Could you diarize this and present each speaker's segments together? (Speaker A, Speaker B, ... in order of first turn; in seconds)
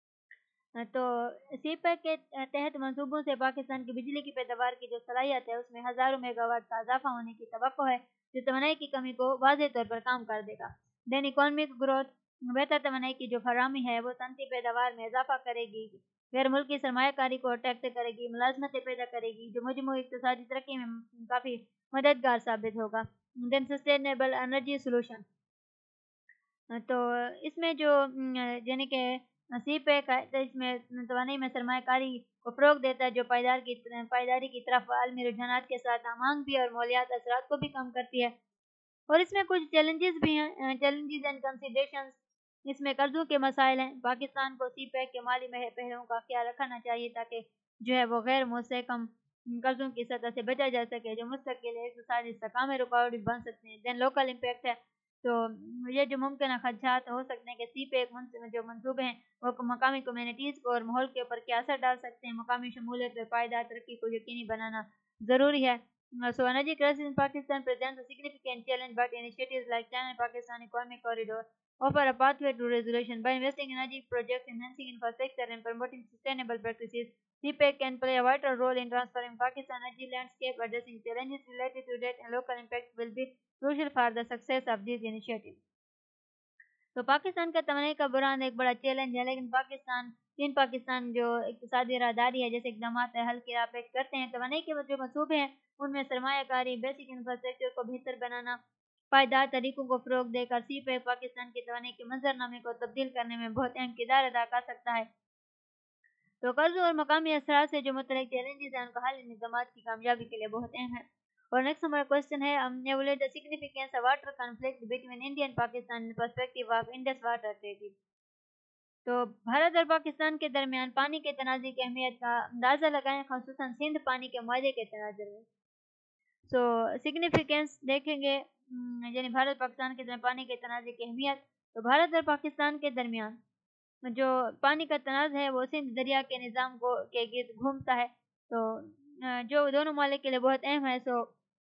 Speaker A: 0.8-25.2, 26.7-38.3, 39.1-85.6, 87.0-98.6, 99.1-105.1, 106.4-118.0, 119.1-125.5, 126.5-133.4, 134.1-141.3